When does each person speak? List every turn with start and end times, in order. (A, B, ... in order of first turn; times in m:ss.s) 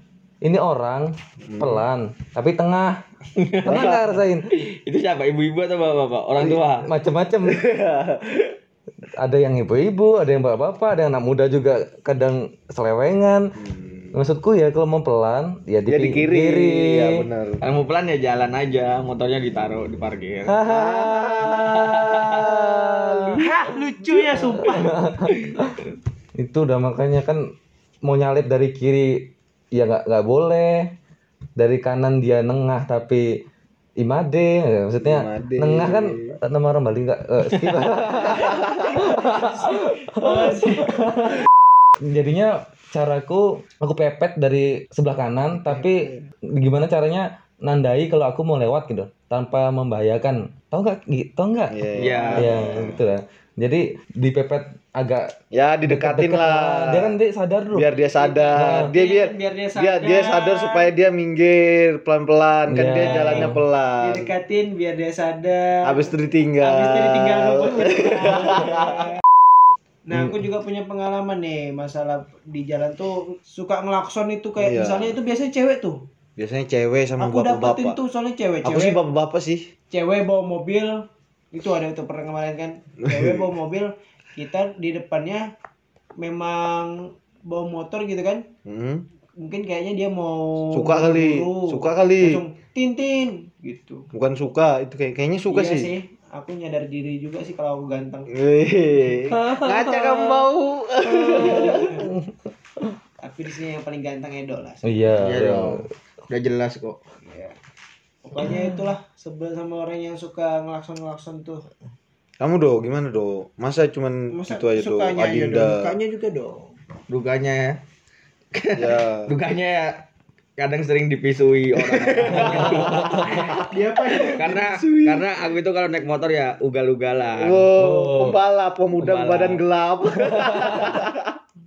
0:00.4-0:02.9 A
0:01.4-0:01.8 B
0:03.4-0:04.0 C
0:03.6-0:04.5 A
0:03.6-0:04.1 B
0:04.5-0:06.9 C
0:06.8-0:07.6 A
0:07.5-0:08.5 C
0:09.2-0:13.4 A
0:13.6-0:14.1 B
0:14.1-0:17.0 A
0:15.9-0:17.6 B
0:17.6-0:20.6 C
0:20.6-0:23.6 B
0:21.8-0:22.3 C
0:22.4-0:25.0 D
0:24.7-0:25.6 A
0:26.4-0:27.4 A
0:28.0-0:30.9 A
0:31.6-0:33.2 A
0:34.0-0:41.3 A
0:35.0-0:36.4 B
0:39.0-0:40.9 D
0:42.1-0:51.8 A
0:51.7-0:53.0 B
0:52.0-0:52.5 C
0:52.2-0:52.5 D
0:52.4-0:55.3 A
0:55.5-0:57.2 B
0:55.9-0:58.0 A
0:57.7-1:04.3 B
0:58.1-1:00.9 D
0:58.5-0:58.9 A
1:02.7-1:03.6 A
1:03.0-1:06.1 D
1:05.8-1:09.0 B
1:06.6-1:09.0 D
1:10.0-1:16.0 D
1:10.1-1:10.4 A
1:14.6-1:15.2 B
1:16.4-1:18.0 B
1:17.2-1:19.0 D
1:18.6-1:19.7 B
1:19.9-1:25.5 D
1:23.1-1:23.4 B
1:26.2-1:28.4 D
1:28.6-1:29.0 B
1:29.4-1:34.1 D
1:30.7-1:32.4 B
1:34.1-1:35.9 B
1:35.5-1:38.3 D
1:38.3-1:42.1 B
1:39.3-1:40.2 A
1:41.2-1:42.0 D
1:41.4-1:42.2 A
1:43.2-1:44.8 D
1:44.8-1:45.8 A
1:45.2-1:47.0 C
1:47.2-1:47.6 D
1:48.2-1:51.6 D
1:48.4-1:48.9 A
1:52.4-1:56.0 B
1:54.3-1:56.7 D
1:57.1-1:57.8 C
1:58.5-2:00.0 C
1:58.7-1:59.3 B
2:00.6-2:03.6 C
2:02.2-2:03.6 B
2:02.3-2:03.2 A
2:03.6-2:05.1 D
2:04.2-2:07.7 C
2:04.9-2:05.2 B
2:07.4-2:11.3 B
2:07.8-2:08.4 A
2:09.0-2:09.6 C
2:10.1-2:11.0 A